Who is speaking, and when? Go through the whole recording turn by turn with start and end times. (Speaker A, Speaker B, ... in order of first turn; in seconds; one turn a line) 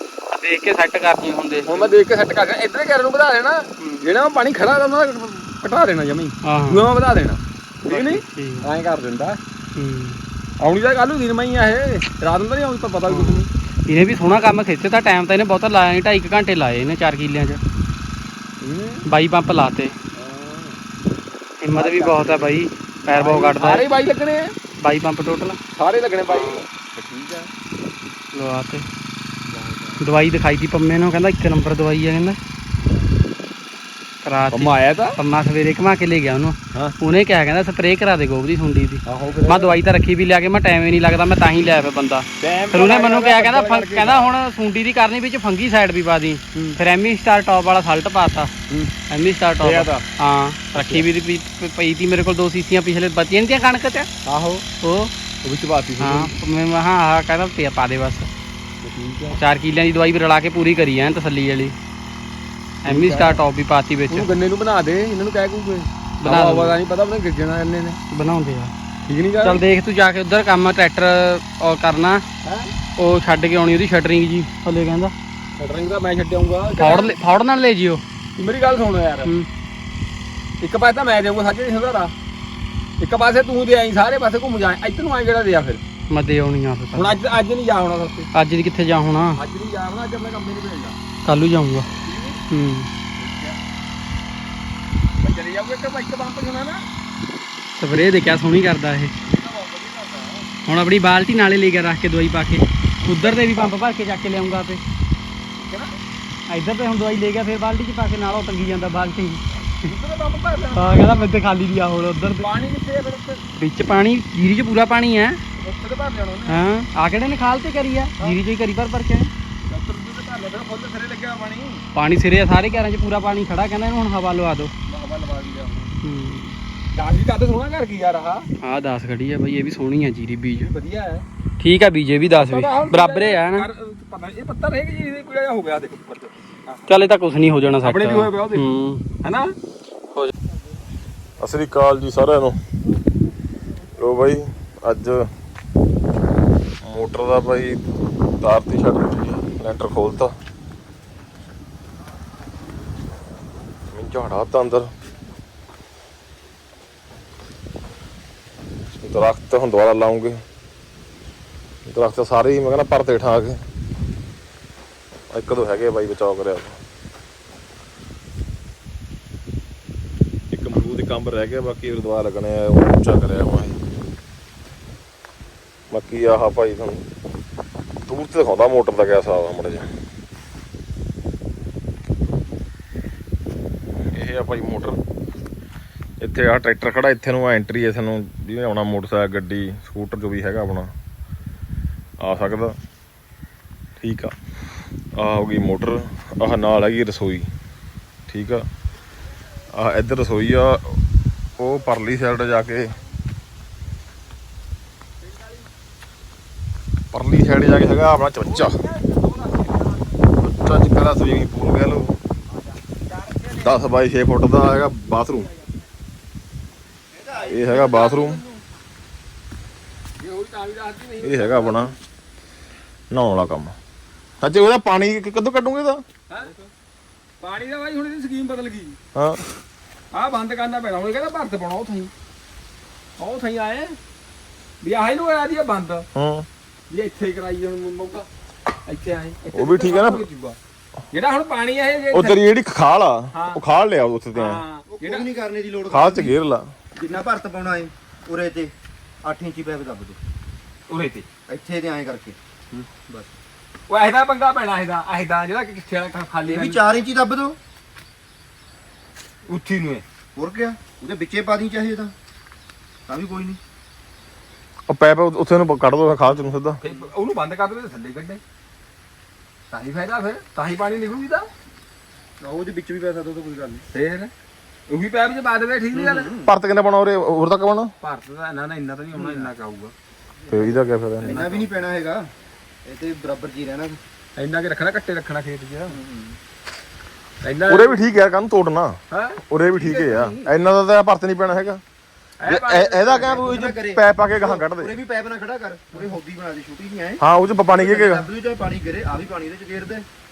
Speaker A: 0.3-2.0
Speaker B: 1.7-9.4
Speaker A: 6.5-6.8
Speaker A: 7.9-8.7
Speaker A: 9.8-10.2
Speaker B: 10.6-13.5
Speaker A: 13.1-17.6
Speaker B: 18.6-19.1
Speaker A: 19.1-19.9
Speaker B: 20.1-20.8
Speaker A: 21.6-23.9
Speaker B: 21.7-24.5
Speaker A: 24.8-25.6
Speaker B: 25.7-27.5
Speaker A: 28.3-28.9
Speaker B: 29.5-30.0
Speaker A: 30.0-32.4
Speaker A: 34.2-48.5
Speaker B: 34.5-35.2
Speaker B: 39.1-39.8
Speaker B: 42.4-44.3
Speaker A: 49.1-54.1
Speaker B: 49.6-50.0
Speaker B: 50.7-51.1
Speaker B: 54.2-54.6
Speaker A: 54.8-55.1
Speaker B: 55.4-56.4
Speaker A: 56.0-58.3
Speaker B: 58.8-59.4
Speaker A: 59.3-61.8
Speaker A: 62.8-64.3
Speaker B: 62.9-63.4
Speaker B: 64.1-68.0
Speaker A: 66.2-66.8
Speaker A: 68.1-68.7
Speaker B: 69.1-69.6
Speaker A: 69.4-72.2
Speaker B: 72.4-72.7
Speaker A: 73.0-75.1
Speaker B: 75.6-77.2
Speaker A: 76.8-78.0
Speaker B: 78.4-79.3
Speaker B: 80.6-82.1
Speaker B: 83.0-85.8
Speaker A: 86.1-87.2
Speaker B: 86.9-88.3
Speaker A: 88.3-89.4
Speaker B: 89.3-91.0
Speaker A: 91.2-91.9
Speaker B: 92.0-92.4
Speaker A: 92.5-92.9
Speaker B: 93.2-93.6
Speaker B: 95.2-96.8
Speaker A: 97.8-99.1
Speaker B: 99.2-100.5
Speaker A: 100.7-104.8
Speaker B: 103.1-103.7
Speaker B: 105.6-106.0
Speaker A: 106.5-109.4
Speaker B: 109.6-111.4
Speaker A: 110.7-112.5
Speaker B: 112.4-113.4
Speaker A: 113.6-115.4
Speaker B: 115.6-116.7
Speaker A: 116.5-119.3
Speaker B: 119.7-121.8
Speaker A: 122.0-124.7
Speaker B: 124.9-126.0
Speaker A: 126.0-126.6
Speaker B: 126.9-128.5
Speaker A: 128.6-130.7
Speaker B: 130.5-131.2
Speaker A: 131.6-133.7
Speaker B: 132.3-136.9
Speaker A: 136.9-139.0
Speaker B: 137.8-138.7
Speaker B: 139.2-139.6
Speaker C: 141.4-142.6
Speaker C: 144.0-145.3
Speaker C: 146.8-147.8
Speaker C: 148.4-150.3
Speaker C: 153.9-154.9
Speaker C: 159.0-160.4
Speaker C: 161.9-163.6
Speaker C: 165.3-166.8
Speaker C: 170.5-173.8
Speaker C: 175.9-177.0
Speaker C: 178.1-179.9
Speaker C: 184.0-185.0
Speaker C: 186.2-190.9
Speaker C: 192.2-192.8
Speaker C: 194.0-194.3
Speaker C: 195.2-197.5
Speaker C: 198.3-198.7
Speaker C: 199.7-201.0
Speaker C: 201.6-202.9
Speaker B: 205.2-205.7
Speaker C: 207.1-208.8
Speaker B: 208.4-210.3
Speaker C: 210.4-212.1
Speaker B: 212.5-213.8
Speaker C: 213.6-215.5
Speaker D: 217.1-218.3
Speaker C: 217.5-218.4
Speaker B: 217.7-218.3
Speaker B: 220.2-221.9
Speaker C: 221.2-221.9
Speaker C: 223.1-223.8
Speaker C: 224.4-226.0
Speaker D: 226.4-226.7
Speaker B: 227.4-229.0
Speaker C: 229.2-229.4
Speaker B: 230.1-232.1
Speaker B: 233.2-234.0
Speaker B: 234.8-236.1
Speaker C: 236.2-236.5
Speaker B: 236.9-238.3
Speaker B: 238.9-240.6
Speaker C: 239.5-240.3
Speaker B: 241.1-242.4
Speaker C: 242.1-244.6
Speaker B: 243.3-243.6
Speaker B: 244.3-245.3
Speaker D: 244.9-246.4
Speaker C: 245.9-246.7
Speaker D: 246.9-248.7
Speaker D: 249.2-250.2
Speaker B: 250.9-251.3
Speaker D: 251.5-252.4
Speaker D: 252.9-253.3
Speaker B: 253.9-256.8
Speaker D: 256.4-257.6
Speaker B: 259.5-260.0
Speaker D: 260.4-262.1
Speaker D: 263.1-263.6
Speaker C: 264.9-266.8
Speaker B: 266.8-268.4
Speaker B: 269.7-271.5
Speaker D: 272.4-273.8
Speaker B: 273.9-274.3
Speaker B: 274.9-276.3
Speaker D: 275.9-276.5
Speaker C: 276.4-277.9
Speaker B: 278.0-279.9
Speaker D: 279.1-279.5
Speaker C: 280.5-281.4
Speaker B: 281.2-281.7
Speaker D: 281.2-282.3
Speaker D: 282.9-284.0
Speaker B: 284.4-286.0
Speaker D: 285.9-286.4
Speaker B: 287.4-288.0
Speaker C: 287.7-289.0
Speaker B: 289.1-289.4
Speaker C: 289.5-291.8
Speaker D: 289.7-290.5
Speaker B: 292.4-293.6
Speaker C: 292.5-294.9
Speaker D: 293.0-300.1
Speaker C: 297.2-298.3